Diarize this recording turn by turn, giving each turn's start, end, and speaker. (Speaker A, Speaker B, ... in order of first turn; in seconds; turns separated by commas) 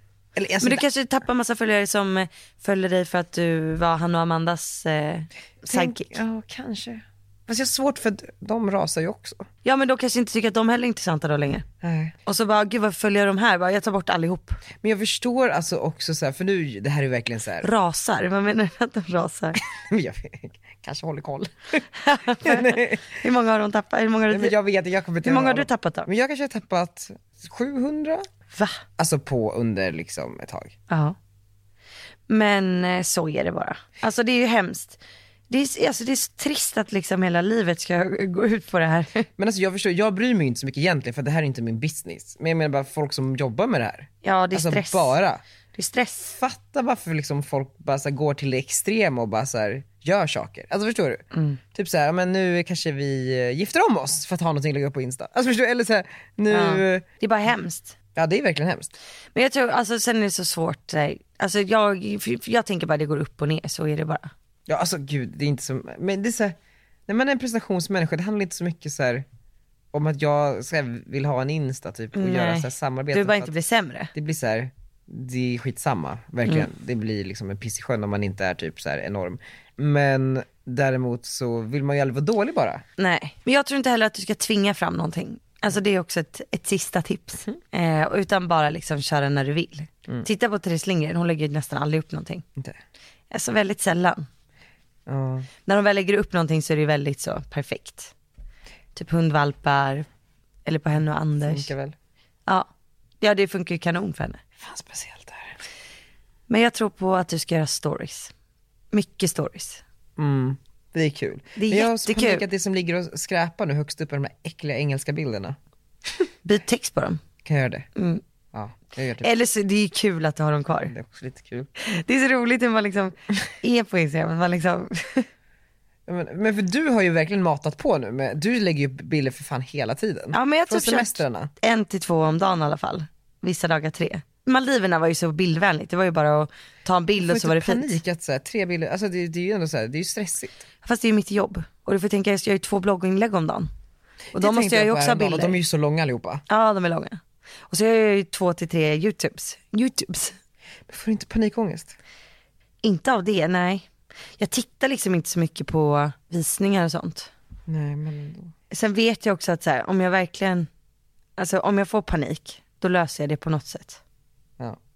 Speaker A: 0.3-0.8, Speaker B: 0.6-6.1, Speaker A: 5.7-9.5, Speaker B: 9.6-11.7, Speaker A: 11.8-12.2, Speaker B: 12.2-14.6, Speaker A: 14.8-17.7, Speaker B: 17.6-19.6, Speaker A: 19.6-23.1, Speaker B: 21.9-24.6, Speaker A: 24.3-28.3, Speaker B: 25.2-26.1, Speaker B: 28.5-28.8, Speaker A: 29.0-30.8, Speaker B: 30.9-31.1, Speaker B: 32.3-35.0, Speaker B: 35.5-39.3, Speaker A: 39.4-45.4, Speaker B: 44.2-45.1, Speaker B: 45.7-46.4, Speaker A: 46.4-57.0, Speaker B: 51.3-51.6, Speaker B: 56.5-57.9, Speaker A: 58.1-58.9, Speaker B: 59.3-64.3, Speaker A: 64.7-66.5, Speaker A: 67.1-69.2, Speaker A: 69.9-73.5, Speaker B: 72.1-74.1, Speaker A: 74.1-82.8, Speaker B: 83.0-92.4, Speaker B: 93.3-94.3, Speaker A: 95.1-95.5, Speaker B: 95.6-98.1, Speaker B: 98.9-100.0, Speaker B: 100.6-101.7, Speaker A: 101.5-101.9, Speaker B: 103.2-104.4, Speaker A: 104.6-105.5, Speaker B: 106.5-108.3, Speaker B: 108.9-109.8, Speaker A: 110.2-115.6, Speaker B: 111.6-112.4, Speaker B: 116.4-117.2, Speaker A: 117.4-117.9, Speaker B: 118.0-118.2, Speaker A: 118.5-119.3, Speaker B: 119.2-120.9, Speaker A: 120.9-121.7, Speaker B: 121.8-125.3, Speaker A: 126.1-131.5, Speaker B: 130.3-138.0, Speaker A: 137.2-140.6, Speaker B: 140.8-143.7, Speaker A: 144.3-146.4, Speaker B: 144.3-145.6, Speaker B: 146.5-150.4, Speaker A: 150.9-151.9, Speaker B: 152.8-157.3, Speaker A: 157.7-158.5, Speaker B: 158.7-160.7, Speaker B: 161.4-164.0